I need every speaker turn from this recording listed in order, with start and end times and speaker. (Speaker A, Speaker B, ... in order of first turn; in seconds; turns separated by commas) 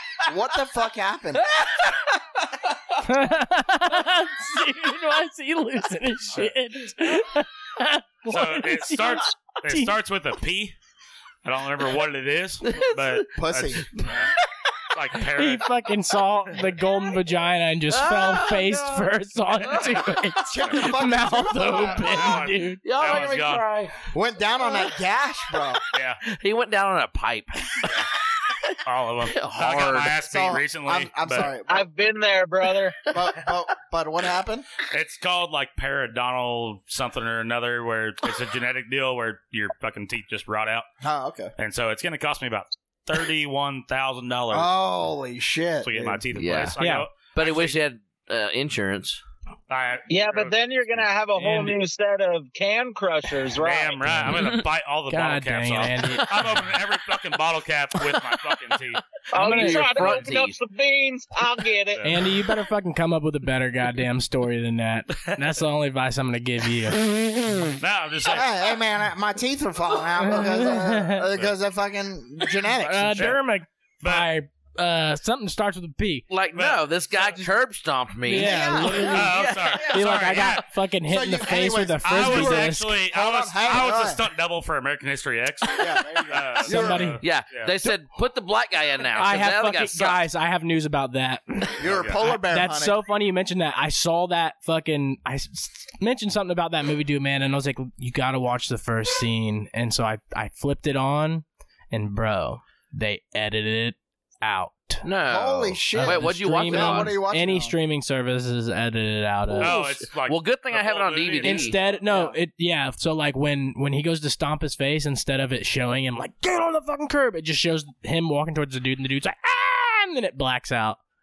Speaker A: 0.2-1.4, Speaker B: 3.0-9.9, Speaker C: 8.3-10.7, Speaker C: 11.4-14.3, Speaker D: 12.6-13.2, Speaker A: 13.3-13.8, Speaker C: 14.9-15.7, Speaker B: 15.3-22.8, Speaker D: 17.9-20.4, Speaker A: 20.4-22.2, Speaker C: 22.0-23.6, Speaker D: 22.8-23.9, Speaker A: 24.1-25.8, Speaker C: 25.9-26.2, Speaker D: 26.2-30.1, Speaker C: 28.8-31.5, Speaker A: 30.2-31.9, Speaker E: 31.7-33.0, Speaker A: 33.1-34.7, Speaker C: 34.9-40.9, Speaker A: 41.0-41.5, Speaker C: 41.6-44.7, Speaker A: 44.5-46.2, Speaker C: 45.8-47.8, Speaker D: 46.3-46.8, Speaker B: 46.8-47.0, Speaker D: 47.3-49.2, Speaker C: 49.7-51.1, Speaker E: 50.1-54.2, Speaker B: 51.4-51.7, Speaker C: 53.6-59.0, Speaker B: 54.0-54.5, Speaker B: 55.1-56.5, Speaker E: 59.3-62.0, Speaker D: 59.4-60.6, Speaker B: 59.4-60.1, Speaker C: 61.9-62.2, Speaker B: 62.0-67.0, Speaker C: 67.8-68.5, Speaker A: 68.3-73.3, Speaker B: 70.2-71.2, Speaker B: 72.8-76.3, Speaker C: 74.0-74.3, Speaker D: 76.3-80.1, Speaker C: 76.5-77.4, Speaker B: 78.3-79.3, Speaker A: 78.3-79.5, Speaker C: 79.0-80.6, Speaker B: 79.9-82.9, Speaker A: 81.0-84.2, Speaker C: 82.0-87.7, Speaker A: 85.8-87.2, Speaker B: 86.6-87.2, Speaker D: 87.2-90.2, Speaker B: 89.2-105.0, Speaker A: 91.8-93.0, Speaker D: 105.0-107.2, Speaker A: 105.3-107.7, Speaker B: 105.9-109.8, Speaker D: 109.5-111.8, Speaker C: 109.6-111.8, Speaker B: 111.4-121.0, Speaker A: 112.0-112.3